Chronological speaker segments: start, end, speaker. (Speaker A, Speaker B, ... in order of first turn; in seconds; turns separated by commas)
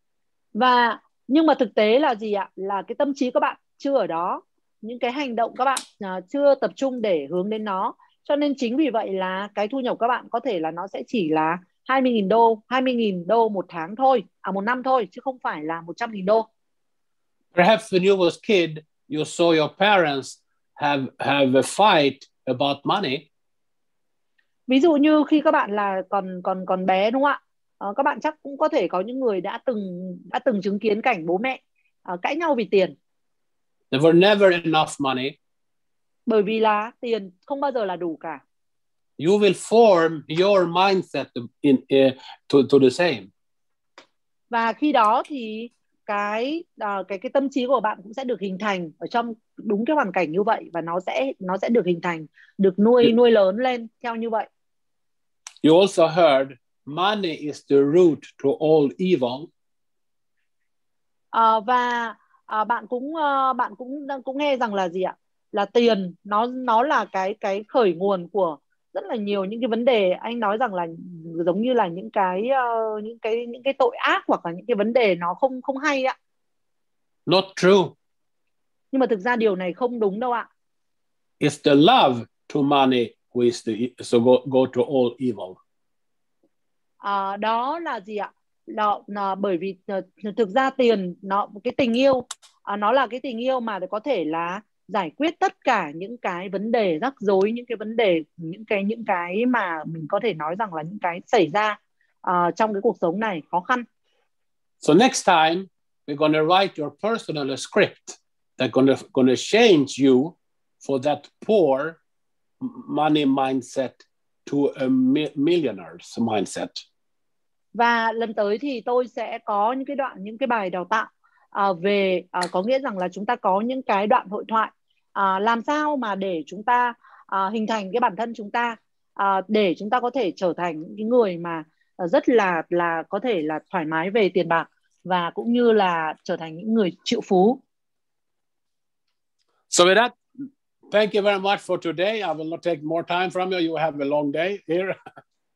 Speaker A: 0.5-16.5, Speaker B: 17.5-23.2, Speaker A: 24.7-32.9, Speaker B: 33.9-35.3, Speaker A: 36.3-38.4, Speaker B: 39.2-43.3, Speaker A: 44.5-54.5, Speaker B: 55.6-59.5, Speaker A: 61.3-76.1, Speaker B: 77.3-77.9, Speaker A: 78.9-80.5, Speaker B: 81.4-85.6, Speaker A: 87.0-103.8, Speaker B: 104.8-112.0, Speaker B: 112.6-116.8, Speaker A: 117.7-137.6, Speaker B: 139.7-140.1, Speaker B: 140.9-144.9